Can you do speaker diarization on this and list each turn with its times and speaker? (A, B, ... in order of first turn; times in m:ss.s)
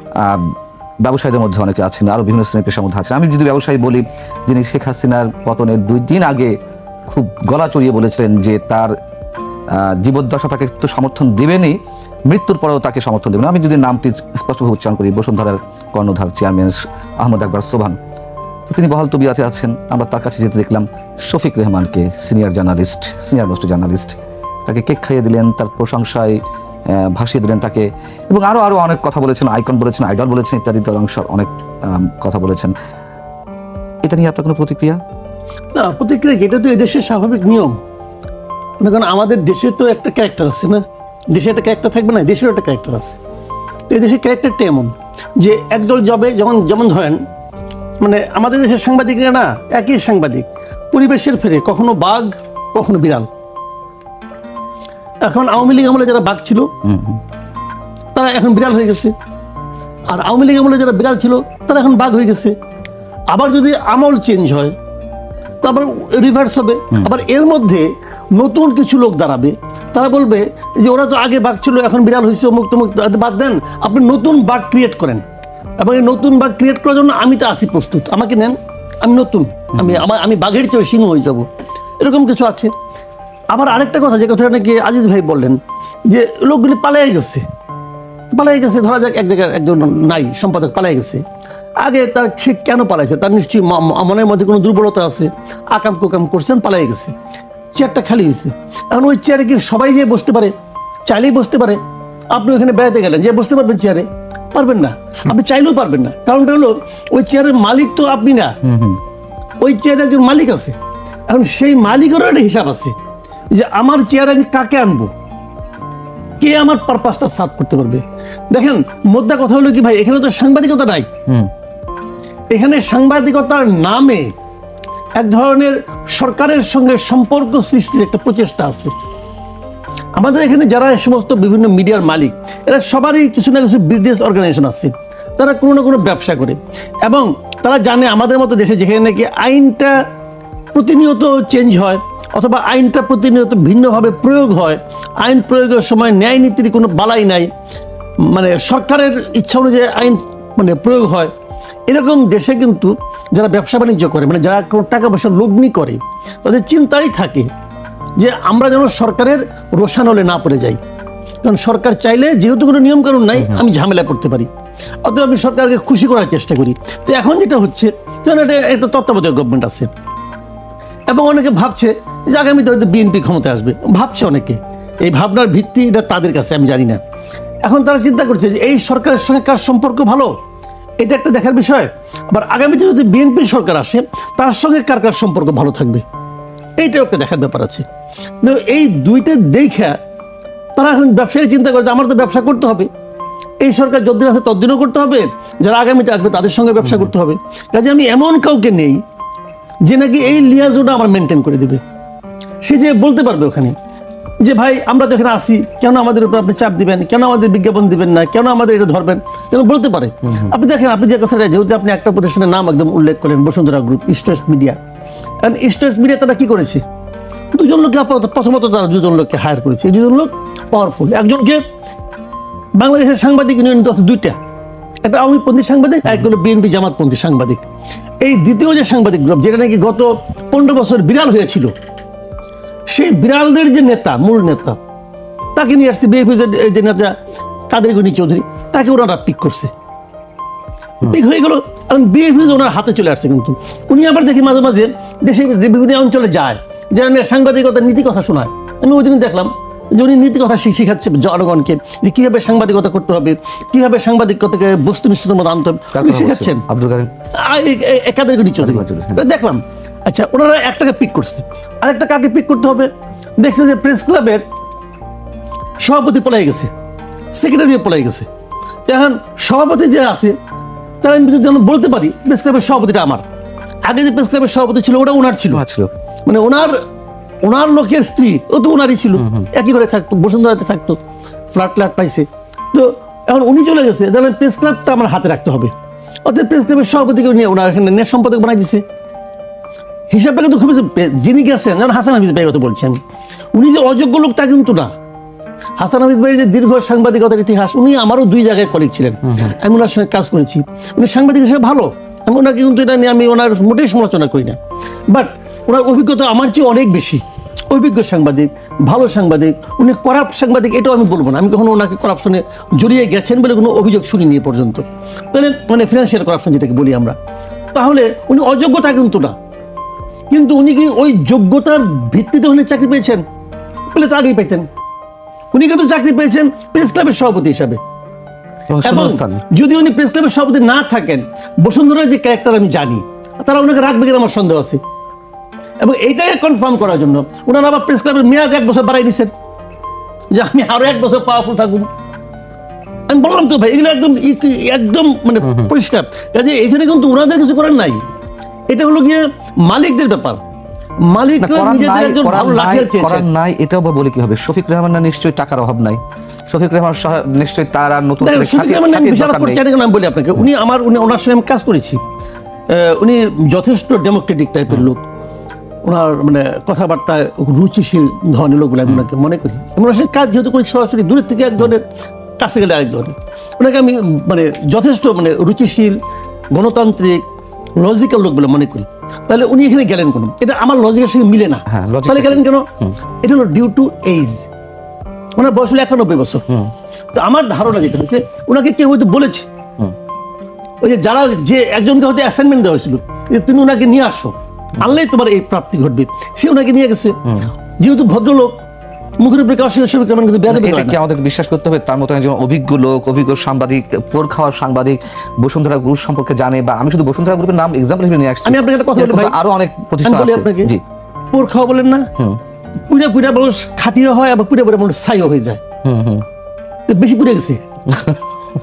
0:00.2-0:06.5 A
0:07.1-0:08.9 A
0:09.7-0:11.8 A
0:12.3-0:18.0 A
0:18.7-0:26.4 A
0:26.9-0:32.7 A
0:34.0-0:35.0 A
0:35.8-0:37.8 B
0:38.8-0:43.2 B
0:43.9-0:47.2 B
0:48.0-0:53.3 B
0:55.2-0:56.7 B
0:56.8-0:57.2 A
0:58.2-0:59.1 B
1:00.1-1:02.6 B
1:03.3-1:04.8 B
1:05.6-1:15.2 B
1:15.8-1:21.5 B
1:19.8-1:20.0 A
1:22.0-1:22.7 B
1:23.5-1:27.4 B
1:28.3-1:31.2 B
1:31.8-1:37.1 B
1:37.8-1:40.5 B
1:41.1-1:41.8 B
1:42.3-1:48.6 B
1:48.6-1:49.0 A
1:49.6-1:50.8 B
1:51.3-1:52.9 B
1:53.5-1:55.1 B
1:56.4-2:01.1 B
2:02.5-2:04.3 B
2:05.2-2:08.9 B
2:10.2-2:20.0 B
2:20.8-2:27.5 B
2:28.3-2:31.3 B
2:31.9-2:37.5 B
2:38.2-2:40.8 B
2:41.4-2:44.5 B
2:45.0-2:49.9 B
2:51.1-2:57.0 B
2:57.6-3:00.3 B
3:01.0-3:06.0 B
3:06.8-3:07.8 B
3:08.4-3:10.0 B
3:10.8-3:12.9 B
3:13.6-3:19.0 B
3:16.8-3:17.1 A
3:19.9-3:21.8 B
3:22.6-3:23.8 B
3:24.4-3:34.8 B
3:30.3-3:30.5 A
3:35.4-3:36.8 B
3:37.6-3:41.6 B
3:42.8-3:44.4 B
3:45.0-3:47.6 B
3:48.2-3:51.7 B
3:52.9-3:54.8 B
3:55.6-3:57.2 B
3:57.7-3:59.7 B
4:01.1-4:16.6 B
4:15.9-4:17.1 A
4:17.3-4:22.9 B
4:18.6-4:19.2 A
4:23.4-4:24.4 B
4:25.8-4:26.7 B
4:27.4-4:28.3 B
4:28.9-4:30.4 B
4:31.0-4:33.2 B
4:33.9-4:35.6 B
4:35.5-4:35.9 A
4:36.3-4:36.8 B
4:37.4-4:41.0 B
4:39.2-4:39.5 A
4:41.5-4:45.7 B
4:46.3-4:48.8 B
4:50.1-4:53.0 B
4:53.5-4:54.9 B
4:55.8-5:17.2 B
4:59.3-4:59.6 A
5:17.7-5:19.4 B
5:20.3-5:23.2 B
5:23.9-5:24.7 B
5:25.5-5:27.8 B
5:28.7-5:29.4 A
5:28.9-5:34.8 B
5:35.8-5:39.3 B
5:40.3-5:41.9 B
5:43.1-5:48.0 B
5:45.4-5:45.7 A
5:48.7-5:50.4 B
5:51.1-5:53.3 B
5:51.4-5:59.6 A
5:58.2-6:02.0 B
6:02.7-6:05.0 B
6:05.8-6:11.8 B
6:12.4-6:16.0 B
6:16.5-6:17.2 B
6:17.8-6:22.7 B
6:21.7-6:23.0 A
6:23.2-6:24.5 B
6:25.4-6:26.4 B
6:27.2-6:29.5 B
6:30.8-6:37.2 B
6:37.3-6:37.5 A
6:37.8-6:38.6 B
6:39.2-6:41.0 B
6:40.5-6:50.8 A
6:48.4-6:49.4 B
6:50.0-6:50.7 B
6:51.3-6:52.1 B
6:52.9-6:55.6 B
6:55.8-6:56.2 A
6:56.9-6:57.6 B
6:57.9-6:58.2 A